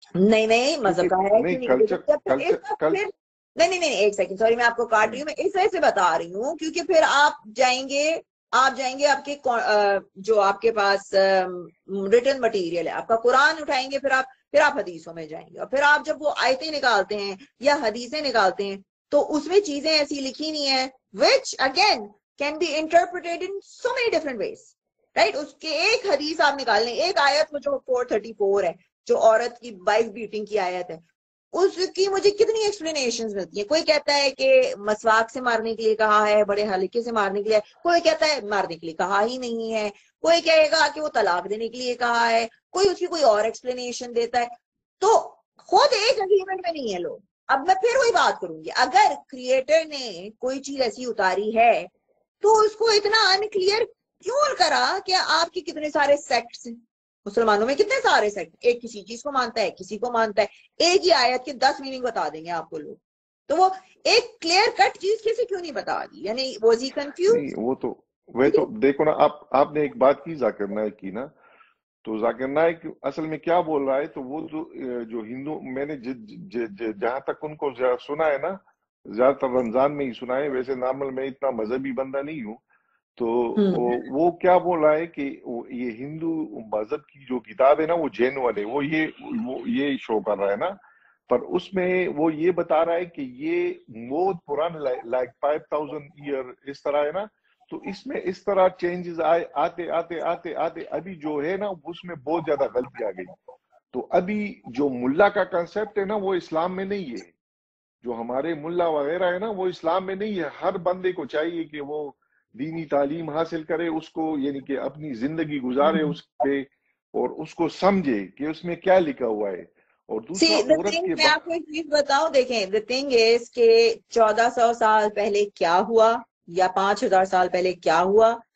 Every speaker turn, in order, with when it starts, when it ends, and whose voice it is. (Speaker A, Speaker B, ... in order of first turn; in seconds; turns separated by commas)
Speaker A: 0.2-51.9, Speaker B: 0.8-3.0, Speaker A: 52.4-67.4, Speaker B: 67.3-71.3, Speaker B: 72.0-78.6, Speaker B: 79.1-82.6, Speaker B: 83.2-90.8, Speaker A: 83.5-83.9, Speaker B: 91.3-103.3, Speaker B: 103.9-107.3, Speaker B: 108.0-121.3, Speaker A: 115.8-116.2, Speaker A: 120.3-128.4